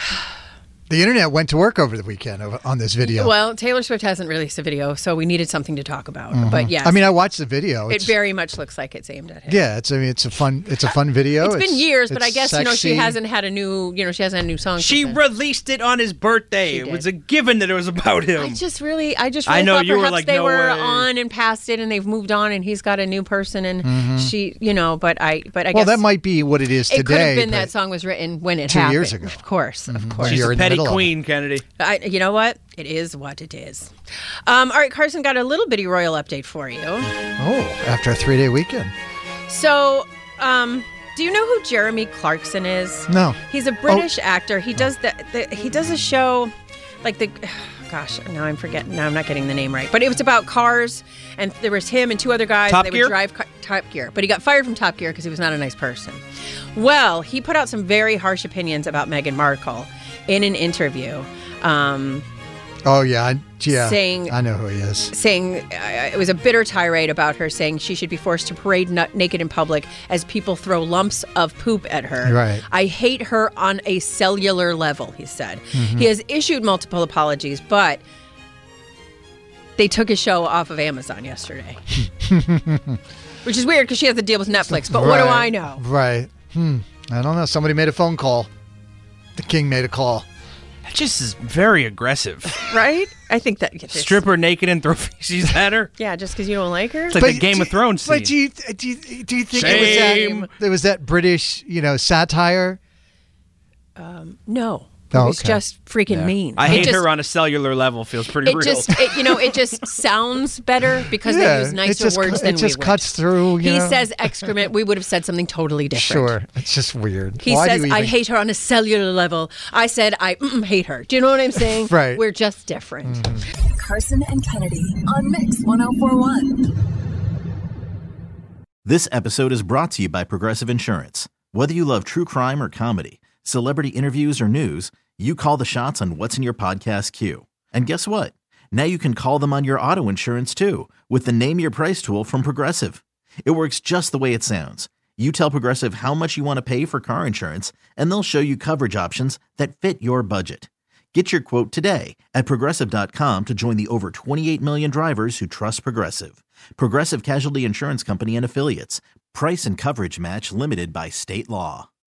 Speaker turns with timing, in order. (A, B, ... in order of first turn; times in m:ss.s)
0:00.9-0:03.3 A
0:03.0-0:07.2 B
0:06.3-0:08.1 A
0:07.9-0:09.6 B
0:09.5-0:13.2 A
0:11.4-0:15.2 B
0:14.8-0:18.6 C
0:16.7-0:17.1 B
0:18.4-0:26.0 B
0:19.4-0:21.1 C
0:23.8-0:24.3 A
0:25.7-0:27.7 A
0:26.9-0:30.4 B
0:28.7-0:31.1 A
0:30.2-0:31.6 C
0:31.8-0:33.9 B
0:34.5-0:37.1 B
0:37.4-0:38.9 A
0:39.5-0:46.5 B
0:43.1-0:44.1 A
0:47.0-0:56.2 B
0:52.7-0:53.1 C
0:56.8-1:02.3 B
1:02.8-1:05.1 A
1:03.7-1:04.4 B
1:05.1-1:18.0 B
1:12.2-1:12.6 A
1:15.7-1:16.1 A
1:19.8-1:21.8 B
1:22.2-1:23.0 A
1:23.4-1:25.8 B
1:24.6-1:28.5 A
1:29.4-1:30.3 A
1:30.9-1:32.6 C
1:32.6-1:34.2 B
1:33.9-1:35.9 C
1:36.0-1:37.2 B
1:37.1-1:38.3 C
1:37.2-1:42.8 A
1:39.5-1:40.5 C
1:39.5-1:40.5 B
1:44.0-1:47.1 B
1:45.1-1:45.6 A
1:46.1-1:49.2 C
1:48.4-1:56.4 B
1:51.2-1:54.5 A
1:55.9-1:58.2 A
1:57.4-2:03.2 B
2:01.8-2:02.2 A
2:03.0-2:03.5 A
2:03.8-2:06.4 D
2:06.0-2:06.3 B
2:08.8-2:41.9 E